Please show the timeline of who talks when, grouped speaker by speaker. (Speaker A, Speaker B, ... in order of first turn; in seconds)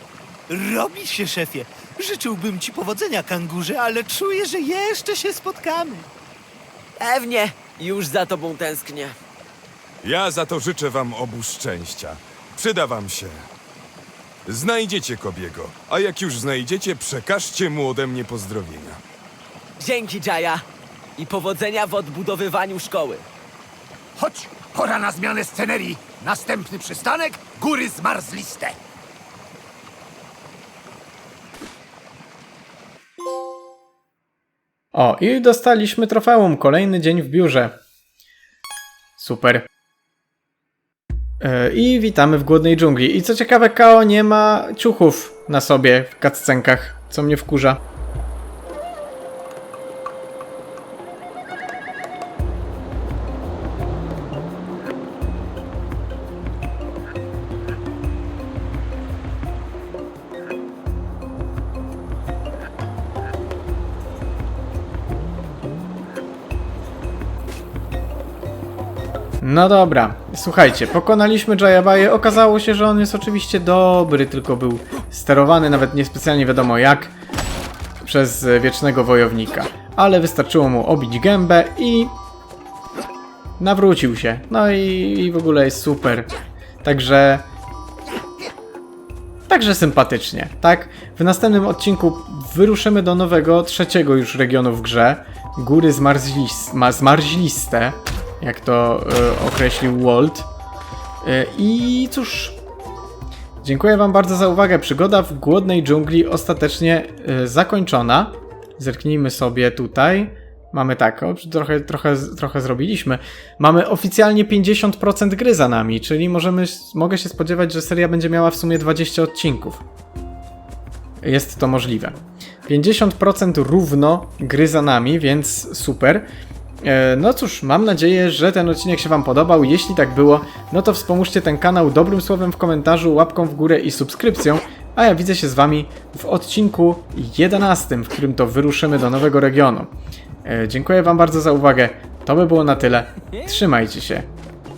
Speaker A: 0.5-6.1
Speaker B: 7.0-9.2, 19.8-20.6, 21.2-23.2
Speaker C: 10.0-13.5, 14.5-19.0
Speaker D: 24.2-28.8
Speaker E: 34.9-37.8, 39.2-39.7, 41.4-47.8, 69.4-77.2, 78.0-82.2, 83.6-86.3, 86.8-87.5, 89.5-100.5, 101.2-102.6, 103.6-119.8, 121.2-126.3, 126.8-139.9, 140.4-144.3